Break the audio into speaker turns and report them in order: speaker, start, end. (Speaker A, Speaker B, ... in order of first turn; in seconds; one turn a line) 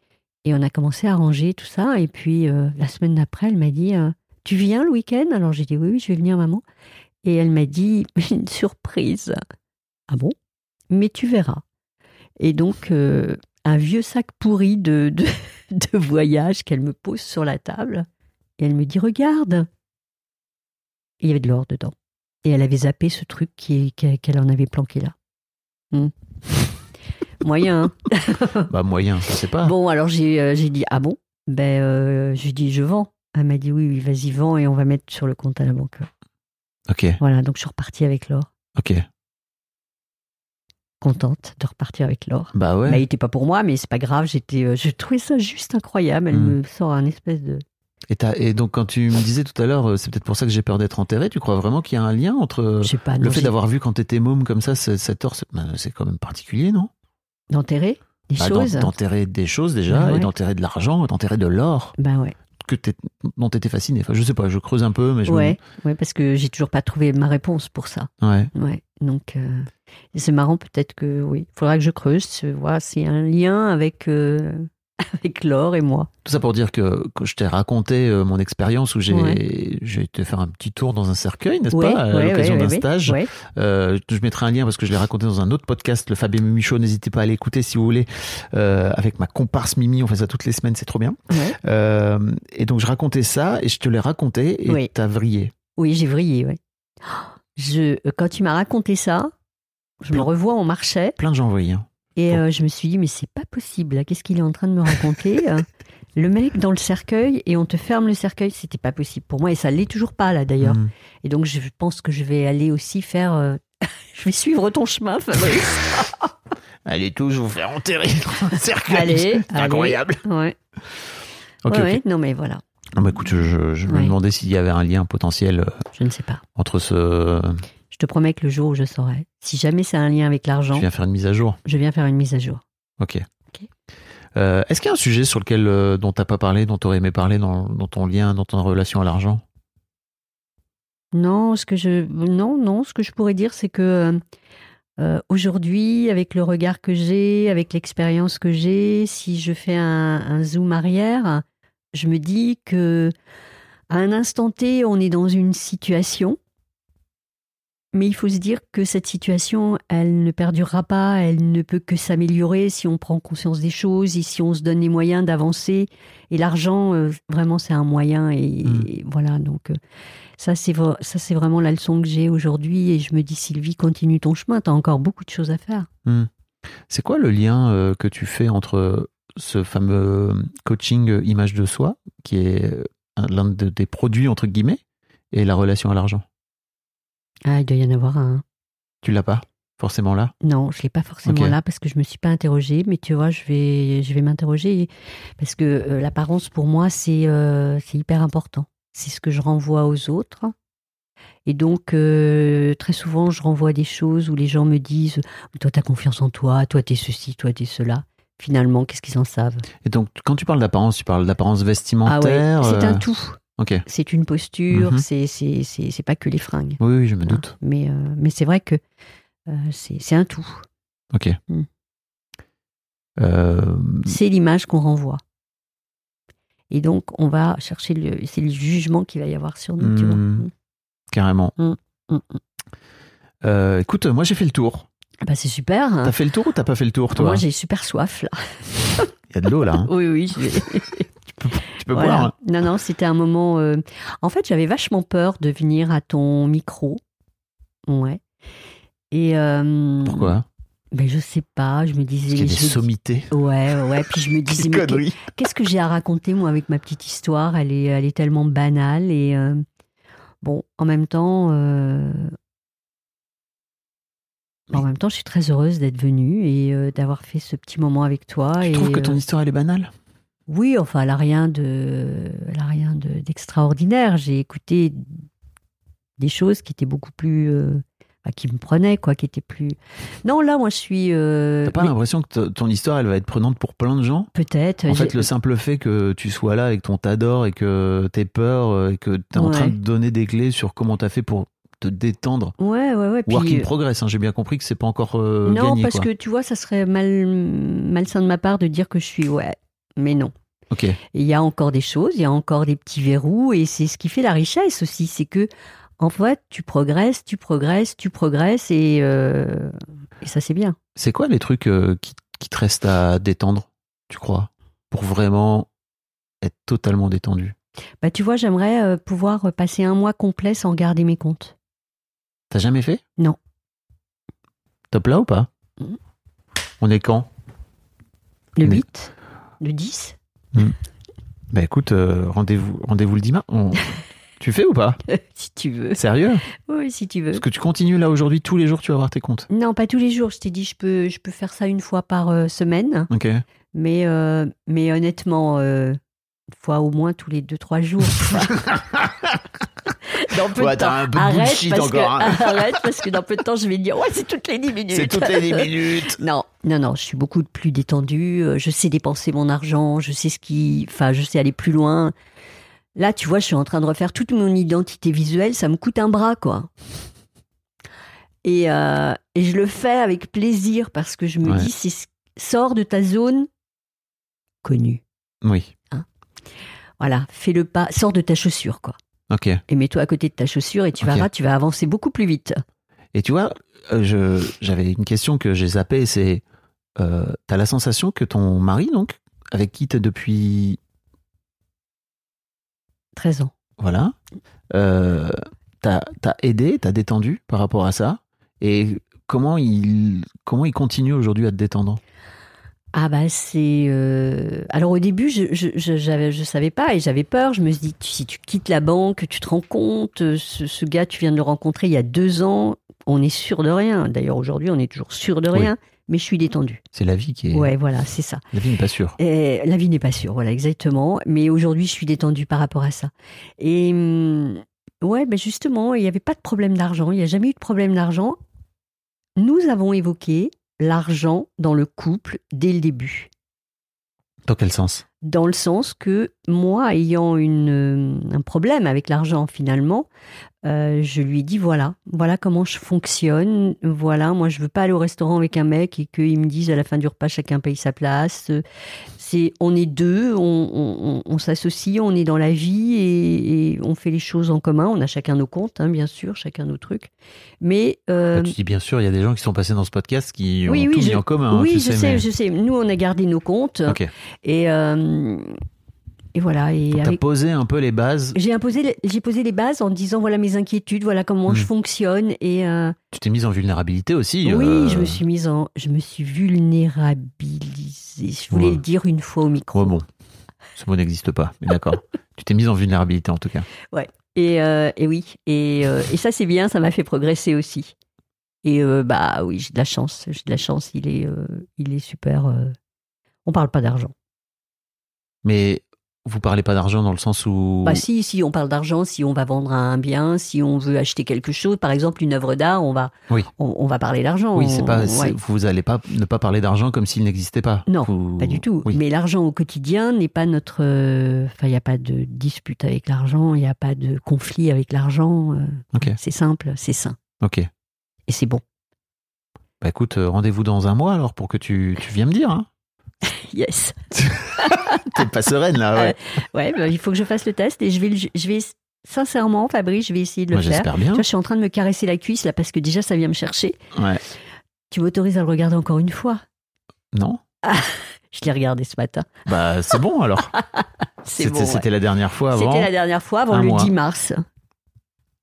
Speaker A: 0.4-6.6
Speaker A: 7.2-9.4
Speaker A: 10.1-10.3
Speaker A: 10.9-11.6
Speaker A: 12.4-18.1
Speaker A: 18.6-19.7
Speaker A: 21.2-25.1
Speaker A: 27.4-28.7
Speaker B: 28.7-29.7
Speaker A: 29.6-36.1
Speaker B: 36.9-37.2
Speaker A: 37.2-38.5
Speaker B: 38.8-39.0
Speaker A: 41.0-47.6
Speaker B: 42.5-43.0
Speaker B: 46.3-46.6
Speaker B: 48.1-56.9
Speaker A: 52.8-53.5
Speaker A: 57.5-58.9
Speaker B: 58.4-61.9
Speaker A: 59.9-60.3
Speaker A: 62.0-62.4
Speaker B: 62.6-65.6
Speaker A: 65.3-76.1
Speaker B: 68.2-68.5
Speaker B: 76.2-95.5
Speaker A: 79.1-79.4
Speaker A: 81.7-83.3
Speaker A: 91.3-91.6
Speaker A: 95.8-99.3
Speaker A: 100.0-101.2
Speaker B: 101.2-102.4
Speaker A: 102.2-116.3
Speaker B: 110.6-110.9
Speaker B: 116.8-120.2
Speaker A: 118.9-120.5
Speaker B: 121.6-122.0
Speaker A: 121.7-123.1
Speaker B: 122.9-125.8
Speaker A: 123.9-124.1
Speaker A: 125.9-126.4
Speaker B: 126.5-127.6
Speaker A: 127.9-130.8
Speaker B: 130.7-131.6
Speaker A: 131.6-132.6
Speaker B: 133.0-133.2
Speaker B: 134.3-139.4
Speaker A: 141.1-144.2
Speaker A: 145.0-153.1
Speaker A: 153.9-156.4
Speaker A: 157.9-169.8
Speaker A: 170.4-175.9
Speaker B: 176.9-186.2
Speaker A: 187.4-188.4
Speaker B: 189.0-190.3
Speaker A: 190.4-200.5
Speaker B: 191.2-191.5
Speaker A: 201.4-209.7
Speaker B: 209.8-213.0
Speaker A: 212.1-218.8
Speaker B: 213.6-213.8
Speaker B: 214.7-215.0
Speaker B: 216.8-217.5
Speaker A: 219.5-220.6
Speaker B: 221.1-221.4
Speaker B: 223.2-224.2
Speaker A: 224.1-225.2
Speaker A: 226.7-230.5
Speaker B: 229.8-230.5
Speaker B: 231.1-231.5
Speaker A: 231.6-232.4
Speaker B: 233.4-234.9
Speaker A: 235.2-236.1
Speaker B: 236.0-237.4
Speaker A: 237.1-239.1
Speaker B: 239.3-239.9
Speaker A: 239.8-241.1
Speaker B: 241.4-242.3
Speaker A: 241.9-247.0
Speaker A: 247.9-248.2
Speaker A: 249.1-250.3
Speaker B: 250.0-250.4
Speaker A: 250.9-259.6
Speaker B: 252.3-253.3
Speaker B: 254.5-255.2
Speaker A: 260.4-262.3
Speaker A: 264.7-269.2
Speaker B: 268.6-269.9
Speaker A: 270.5-275.0
Speaker A: 276.2-281.9
Speaker B: 281.6-284.3
Speaker A: 284.3-285.3
Speaker B: 284.9-292.5
Speaker A: 289.4-289.7
Speaker A: 292.6-293.7
Speaker B: 293.2-296.1
Speaker A: 295.4-300.3
Speaker B: 300.7-301.0
Speaker A: 301.1-310.8
Speaker B: 310.9-315.7
Speaker B: 316.4-317.5
Speaker A: 318.0-321.5
Speaker B: 322.5-323.0
Speaker B: 324.9-325.5
Speaker B: 326.8-327.3
Speaker A: 328.6-330.1
Speaker B: 331.5-335.0
Speaker A: 335.1-336.0
Speaker B: 335.9-336.4
Speaker A: 336.5-337.4
Speaker B: 337.3-339.5
Speaker A: 339.5-343.1
Speaker B: 343.1-343.4
Speaker A: 343.7-346.0
Speaker A: 346.5-348.7
Speaker B: 348.1-349.4
Speaker A: 350.2-362.1
Speaker B: 350.3-352.9
Speaker B: 354.9-356.2
Speaker A: 362.9-366.7
Speaker A: 368.4-373.5
Speaker B: 371.4-371.7
Speaker A: 374.6-375.0
Speaker B: 375.4-375.7
Speaker A: 377.0-379.0
Speaker B: 379.3-379.6
Speaker A: 379.7-382.6
Speaker B: 381.0-381.3
Speaker B: 383.1-386.4
Speaker B: 387.0-390.8
Speaker A: 393.1-393.5
Speaker B: 393.8-394.1
Speaker B: 394.7-402.0
Speaker A: 402.9-416.8
Speaker B: 416.9-417.7
Speaker A: 417.5-418.4
Speaker B: 418.5-419.2
Speaker A: 419.2-428.4
Speaker A: 429.4-433.3
Speaker B: 434.4-435.0
Speaker A: 435.2-440.1
Speaker A: 440.6-448.6
Speaker A: 449.2-458.5
Speaker B: 458.3-462.3
Speaker A: 460.7-465.5
Speaker A: 466.3-467.2
Speaker B: 466.9-468.4
Speaker A: 468.3-473.0
Speaker B: 473.1-475.2
Speaker A: 474.4-479.9
Speaker B: 478.5-478.8
Speaker B: 479.7-480.1
Speaker B: 480.7-483.7
Speaker A: 483.9-487.9
Speaker A: 488.6-492.7
Speaker A: 493.4-494.1
Speaker B: 495.4-498.1
Speaker A: 497.8-505.4
Speaker B: 504.5-509.0
Speaker A: 507.9-517.2
Speaker B: 517.4-517.7
Speaker A: 518.3-518.6
Speaker B: 519.8-522.7
Speaker A: 523.2-525.2
Speaker B: 524.2-526.2
Speaker A: 525.9-533.8
Speaker B: 530.5-531.2
Speaker B: 533.9-534.2
Speaker A: 534.9-536.4
Speaker B: 537.1-537.4
Speaker A: 537.6-539.4
Speaker B: 539.5-540.5
Speaker A: 540.5-541.8
Speaker B: 541.4-542.9
Speaker A: 542.5-544.4
Speaker B: 543.5-543.9